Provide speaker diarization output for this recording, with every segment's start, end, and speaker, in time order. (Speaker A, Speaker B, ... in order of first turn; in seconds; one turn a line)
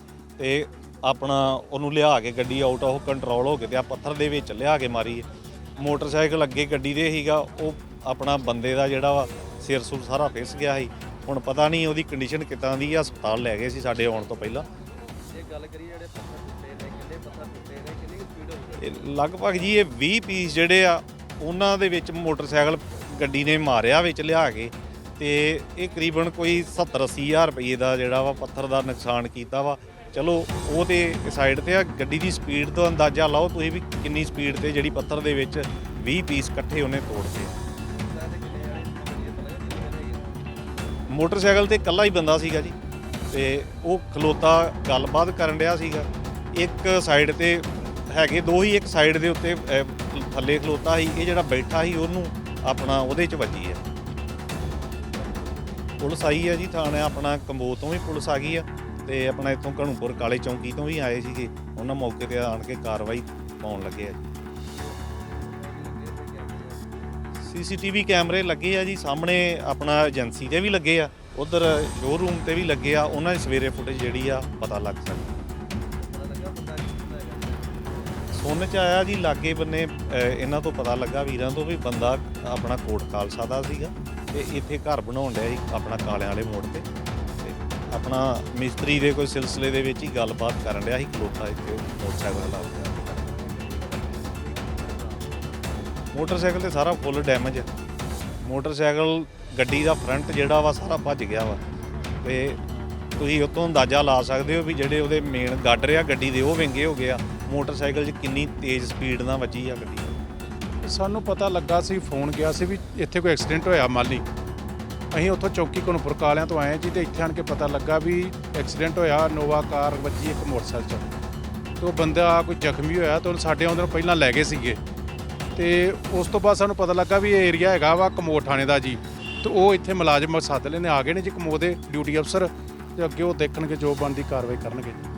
Speaker A: 0.4-14.7
Speaker B: 15.3-18.9
Speaker A: 18.8-37.5
Speaker B: 37.9-40.4
Speaker A: 41.1-42.7
Speaker A: 43.3-53.8
Speaker B: 54.6-56.0
Speaker A: 56.0-64.2
Speaker B: 64.7-67.3
Speaker A: 67.4-75.3
Speaker B: 76.0-78.2
Speaker A: 78.3-86.8
Speaker A: 87.4-92.8
Speaker B: 92.4-95.6
Speaker A: 96.1-97.7
Speaker A: 98.4-101.6
Speaker A: 102.2-102.6
Speaker A: 103.2-110.2
Speaker C: 110.8-114.2
Speaker C: 115.1-121.1
Speaker C: 121.8-124.8
Speaker C: 125.5-135.1